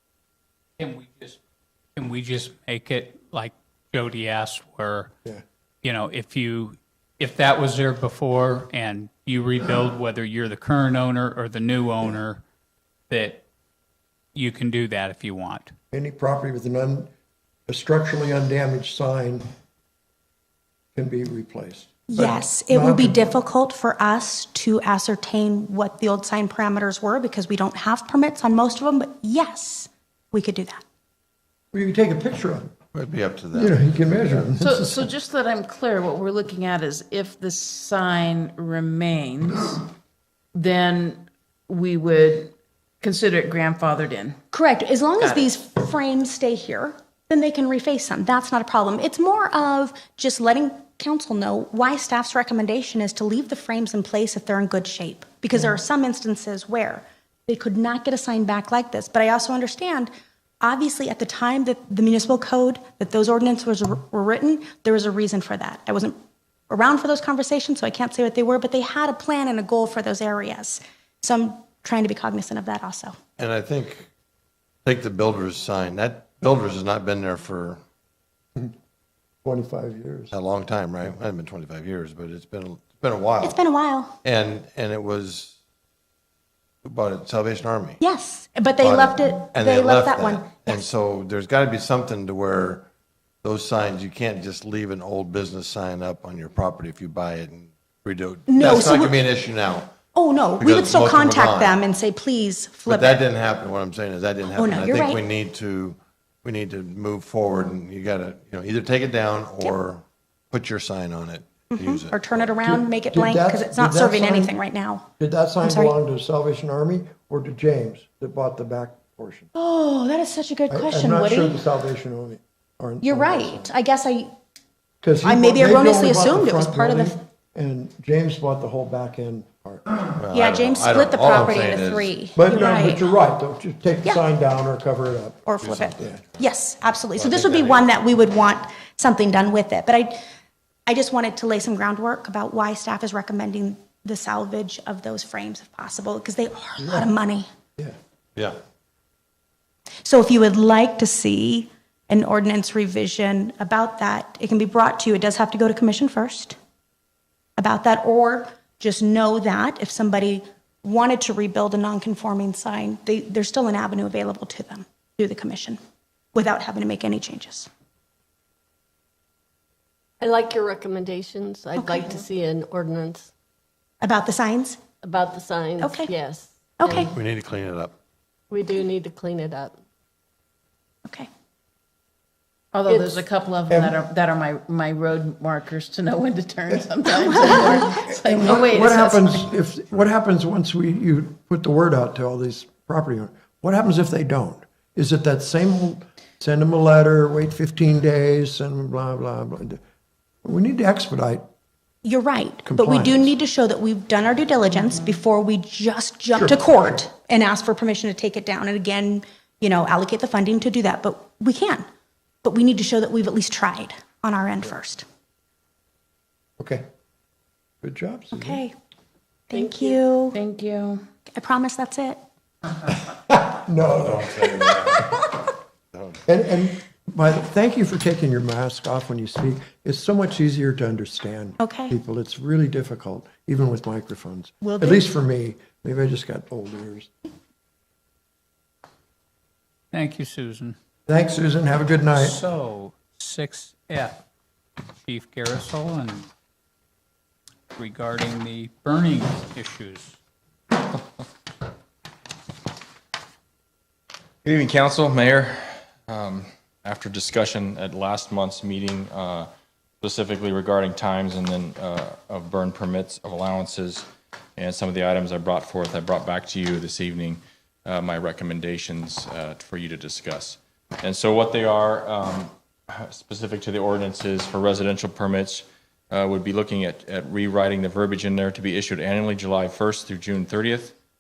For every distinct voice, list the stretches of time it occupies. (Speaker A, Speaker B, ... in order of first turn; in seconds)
Speaker A: 0.8-1.4, 2.0-5.1, 5.8-12.4, 13.1-13.4, 14.3-15.8, 239.9-240.8, 242.1-244.2, 245.1-246.3, 247.8-250.2
Speaker B: 15.9-17.1, 17.7-19.4, 20.9-23.3, 31.7-32.7, 33.5-35.1, 79.4-80.3, 112.6-114.5, 115.2-119.5, 120.7-123.7, 125.0-129.9, 132.4-136.2, 146.8-147.1, 183.7-184.0, 188.1-199.8, 200.4-201.4, 202.7-203.3, 206.3-206.9, 216.6-216.8, 217.8-218.6, 223.1-225.2, 226.2-237.1, 241.1-242.4
Speaker C: 22.1-30.8, 44.5-60.1, 60.6-66.2, 66.7-73.2, 83.4-84.2, 88.0-90.8, 98.5-99.2, 100.1-103.2, 104.6-105.2, 111.7-115.1, 115.6-115.9, 119.5-121.6, 123.0-124.3, 125.2-127.2, 130.3-133.0, 135.5-140.2, 140.9-147.5, 150.0-156.6, 157.6-165.8, 166.3-167.7, 171.8-172.2, 174.0-174.8, 175.8-176.1, 176.8-177.1, 202.0-211.8, 212.4-215.0, 218.3-218.7, 219.5-220.4, 221.3-222.2, 231.6-231.9, 234.6-235.1
Speaker D: 32.9-34.6, 73.4-74.1, 74.8-77.8, 80.3-83.6, 84.2-85.6, 86.8-88.0, 88.8-92.9, 93.4-99.9, 100.6-101.8, 102.9-112.5, 130.2-132.1, 135.6-136.2, 137.2-137.8, 177.0-177.9, 223.9-225.1
Speaker E: 34.6-39.8, 40.5-44.4, 45.2-45.5, 182.7-189.4, 204.7-205.2, 220.3-221.1
Speaker F: 170.2-173.3, 175.0-177.1, 178.5-179.8, 182.8-183.3, 219.5-220.0
Speaker G: 254.4-259.5, 260.0-280.9